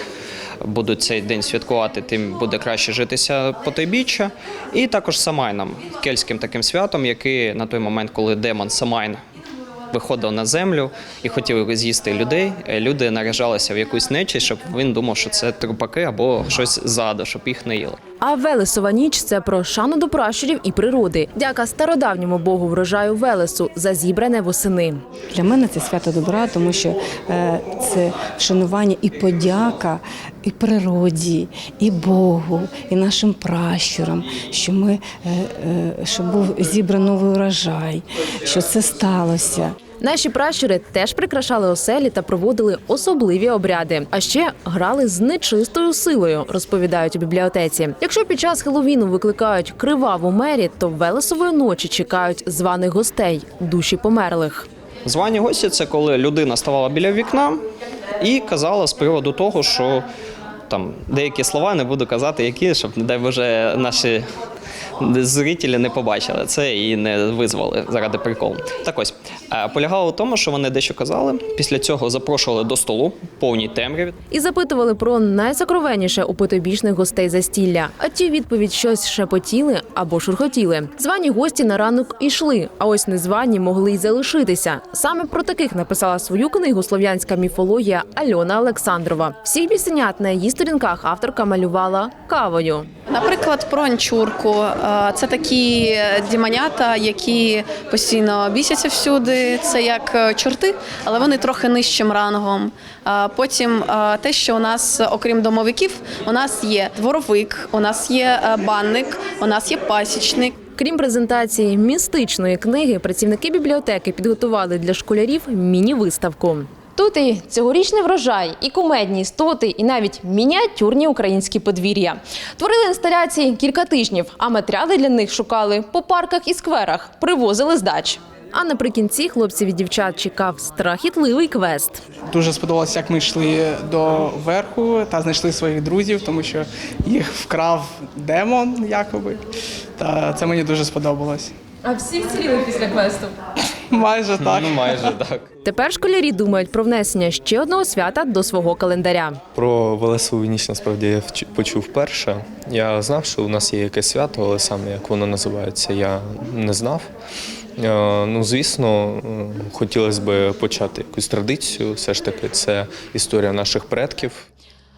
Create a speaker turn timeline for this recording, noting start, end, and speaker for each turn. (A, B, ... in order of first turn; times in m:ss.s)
0:00.6-0:09.2 A
0:09.9-0:18.0 A
0:18.2-0:25.0 B
0:25.4-0:39.8 C
0:40.0-0:54.7 B
0:55.0-0:57.6 A
0:58.2-1:00.0 A
1:00.7-1:04.2 A
1:05.0-1:14.2 A
1:14.3-1:32.9 B
1:33.1-1:50.6 D
1:50.8-2:12.0 B
2:12.3-2:19.4 E
2:20.0-2:21.6 E
2:21.8-2:23.3 B
2:23.9-2:25.1 E
2:24.4-2:25.5 A
2:25.6-2:29.4 B
2:29.6-2:37.1 F
2:37.8-2:44.5 F